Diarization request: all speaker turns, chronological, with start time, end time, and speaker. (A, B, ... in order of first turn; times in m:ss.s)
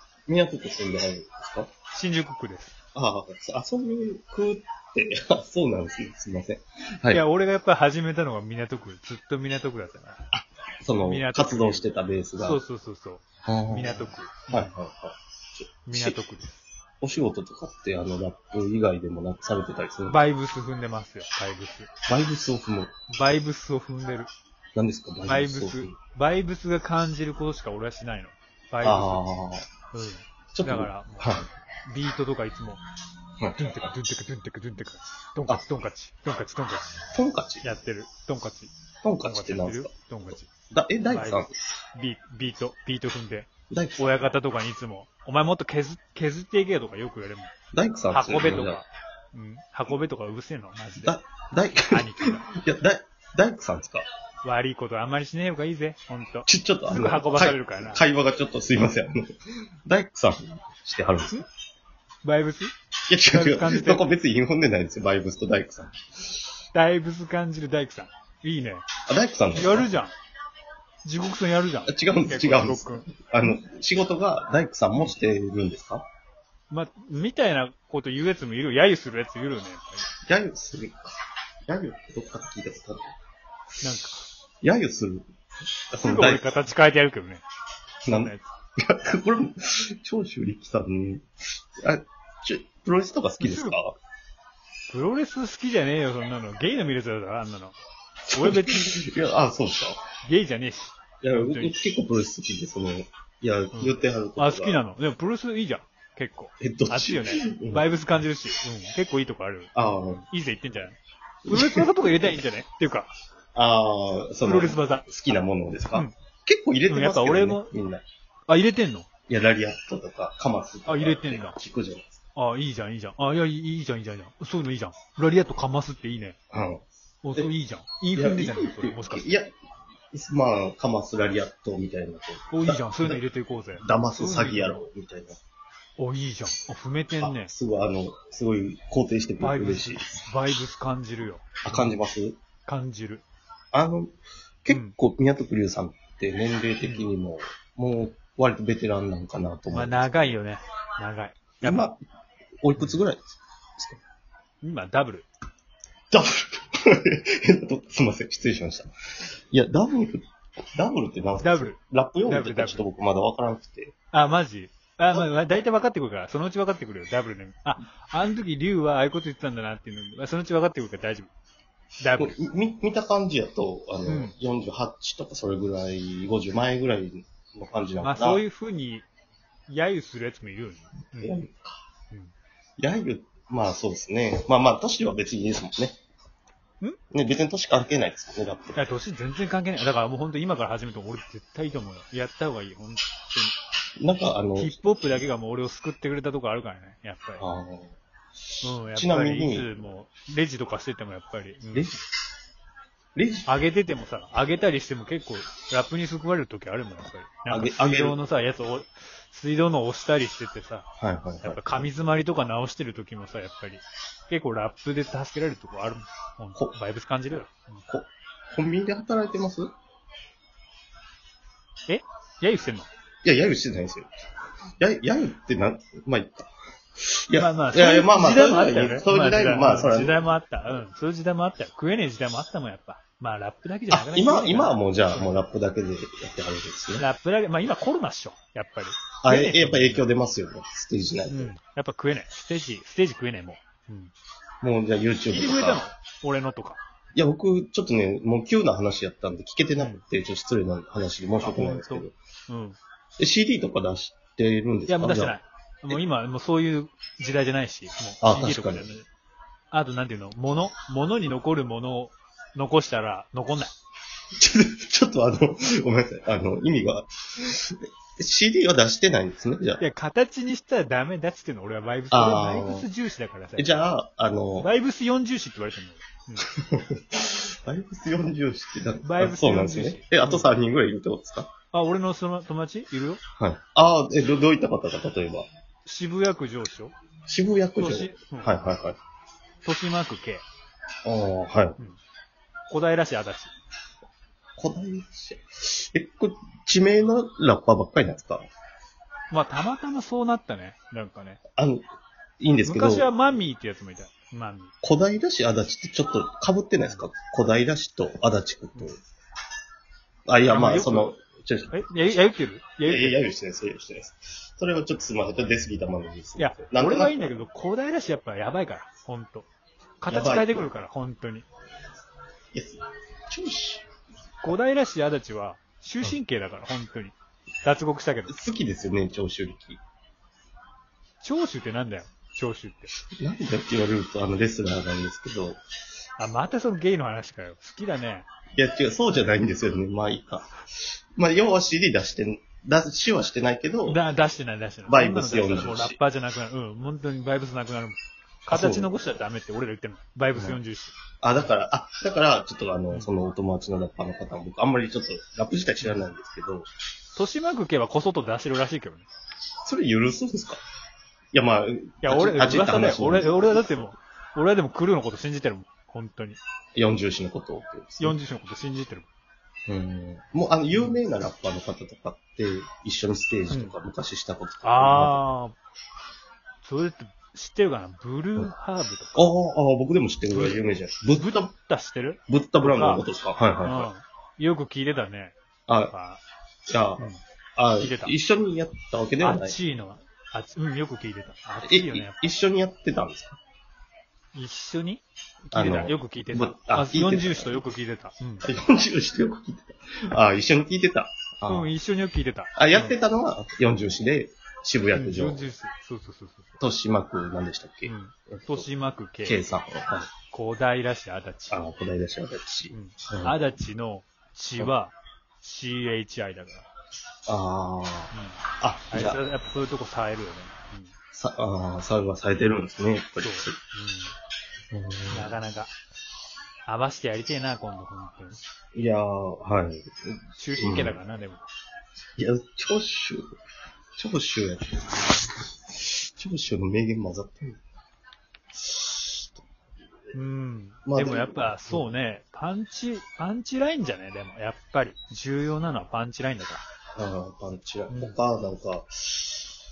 0:00.3-0:01.7 A
0:01.9-0:02.8 B
0:03.0-0:07.2 A
0:07.1-0:10.2 B
0:10.3-0:12.6 A
0:11.0-0:14.7 B
0:13.4-0:16.2 A
0:15.9-0:16.6 B
0:17.0-0:20.2 A
0:20.1-0:21.9 B
0:22.1-0:22.9 A
0:23.1-0:24.3 B
0:24.8-0:26.0 A
0:25.2-0:29.2 B
0:28.8-0:29.7 A
0:29.9-0:32.8 B
0:30.5-0:31.5 A
0:33.4-0:33.9 A
0:33.6-0:37.0 B
0:37.1-0:37.7 A
0:37.6-0:38.7 B
0:39.0-0:39.9 A
0:39.2-0:40.5 B
0:40.7-0:41.5 A
0:41.1-0:47.5 B
0:43.7-0:44.3 A
0:47.7-0:48.8 A
0:48.1-0:51.2 B
0:51.0-0:54.0 A
0:51.9-0:52.5 B
0:54.4-0:58.0 B
0:56.5-0:59.3 A
0:59.8-1:01.4 A
1:02.2-1:02.7 B
1:03.1-1:06.0 A
1:03.3-1:04.1 B
1:06.7-1:08.9 B
1:09.1-1:09.9 A
1:09.5-1:10.1 B
1:11.0-1:13.1 B
1:11.9-1:16.1 A
1:16.7-1:20.1 B
1:20.3-1:21.2 A
1:21.7-1:23.1 A
1:23.8-1:24.3 B
1:24.6-1:25.3 A
1:25.9-1:26.5 A
1:26.0-1:27.4 B
1:28.0-1:28.5 B
1:28.1-1:31.3 A
1:31.8-1:34.0 A
1:33.4-1:33.8 B
1:34.9-1:37.8 B
1:38.2-1:40.0 A
1:38.3-1:38.9 B
1:40.2-1:41.8 B
1:41.2-1:44.8 A
1:43.7-1:53.1 B
1:46.6-1:47.9 A
1:49.8-1:50.2 A
1:51.4-1:51.9 A
1:53.6-1:58.0 A
1:54.4-1:55.1 B
1:56.9-1:57.7 B
1:58.5-1:59.1 B
1:59.3-2:02.2 A
2:00.9-2:01.6 B
2:02.4-2:06.4 B
2:06.5-2:06.8 A
2:07.2-2:09.2 B
2:08.1-2:09.5 A
2:10.1-2:13.2 A
2:12.5-2:14.8 B
2:13.8-2:15.4 A
2:16.0-2:17.5 B
2:17.2-2:20.2 A
2:19.4-2:21.9 B
2:21.6-2:22.4 A
2:22.7-2:23.2 B
2:23.7-2:24.1 A
2:24.6-2:30.4 A
2:29.7-2:31.9 B
2:31.6-2:32.0 A
2:32.6-2:34.0 A
2:34.6-2:35.3 B
2:36.1-2:38.9 A
2:39.5-2:40.2 A
2:40.8-2:43.9 A
2:41.4-2:42.9 B
2:44.1-2:51.3 B
2:52.0-2:52.4 B
2:52.2-2:58.4 A
2:54.1-2:54.3 B
2:58.0-2:59.1 B
2:59.7-3:01.4 B
3:01.2-3:01.8 A
3:02.8-3:06.0 A
3:07.1-3:08.8 A
3:08.8-3:13.6 B
3:14.0-3:14.8 A
3:14.6-3:17.4 B
3:17.4-3:18.0 A
3:18.6-3:21.9 B
3:18.9-3:19.7 A
3:23.2-3:23.5 A
3:23.5-3:30.9 B
3:27.5-3:28.2 A
3:31.0-3:31.9 A
3:31.4-3:37.8 B
3:37.9-3:39.7 A
3:41.9-3:42.9 B
3:43.2-3:44.1 A
3:44.8-3:46.5 A
3:47.1-3:50.2 A
3:47.4-3:55.4 B
3:53.9-3:57.1 A
3:57.0-4:00.1 B
3:59.2-4:01.6 A
4:01.3-4:04.1 B
4:04.6-4:05.8 A
4:05.3-4:06.8 B
4:07.2-4:12.1 A
4:09.8-4:10.0 B
4:11.4-4:12.8 B
4:13.2-4:15.4 A
4:14.9-4:19.1 B
4:18.2-4:18.9 A
4:19.7-4:23.7 B
4:24.4-4:29.8 A
4:29.8-4:33.8 B
4:32.1-4:32.9 A
4:33.6-4:34.7 A
4:34.6-4:36.5 B
4:36.5-4:41.5 A
4:39.0-4:40.5 B
4:41.7-4:43.2 B
4:43.4-4:45.5 A
4:45.9-4:47.0 B
4:47.2-4:49.0 A
4:47.8-4:48.5 B
4:49.6-4:50.5 B
4:51.0-4:51.8 A
4:52.7-4:53.5 B
4:54.6-4:58.5 A
4:59.3-5:01.4 B
5:01.6-5:01.8 A
5:02.4-5:03.1 A
5:02.7-5:04.7 B
5:04.8-5:09.0 A
5:10.3-5:11.7 A
5:10.5-5:11.1 B
5:11.7-5:13.2 B
5:12.9-5:17.4 A
5:16.4-5:19.5 B
5:20.0-5:21.5 B
5:20.1-5:20.6 A
5:22.5-5:23.8 A
5:24.4-5:28.4 B
5:28.3-5:29.8 A
5:31.2-5:32.9 B
5:33.0-5:35.6 A
5:36.2-5:38.3 B
5:38.6-5:44.0 A
5:43.9-5:51.0 B
5:44.9-5:46.0 A
5:48.5-5:48.9 A
5:51.2-5:56.7 A
5:55.8-5:56.1 B
5:57.1-5:59.1 B
5:59.6-6:00.6 A
6:01.3-6:03.9 A
6:02.0-6:06.4 B
6:06.8-6:08.2 A
6:08.0-6:09.1 B
6:09.7-6:15.2 A
6:10.7-6:11.0 B
6:14.6-6:15.6 B
6:16.6-6:19.3 B
6:19.1-6:21.5 A
6:20.3-6:23.0 B
6:22.3-6:23.9 A
6:23.6-6:25.4 B
6:25.7-6:25.9 A
6:25.9-6:26.2 B
6:26.7-6:29.6 A
6:27.8-6:28.1 B
6:29.2-6:32.2 B
6:31.6-6:33.4 A
6:34.3-6:38.5 B
6:35.5-6:37.6 A
6:38.4-6:41.7 A
6:41.5-6:43.0 B
6:42.6-6:45.5 A
6:44.9-6:46.6 B
6:46.6-6:48.7 A
6:47.9-6:49.5 B
6:49.2-6:50.1 A
6:50.3-6:51.6 B
6:51.5-6:53.4 A
6:52.7-6:56.7 B
6:57.3-6:59.2 A
6:58.1-7:00.9 B
7:01.1-7:03.6 A
7:03.2-7:04.1 B
7:04.7-7:05.4 A
7:05.1-7:05.7 B
7:06.6-7:08.4 B
7:08.8-7:11.0 A
7:10.4-7:11.4 B
7:12.2-7:13.2 A
7:14.0-7:17.6 A
7:18.5-7:19.4 A
7:20.1-7:26.6 B
7:20.9-7:21.9 A
7:27.0-7:29.5 A
7:27.9-7:28.2 B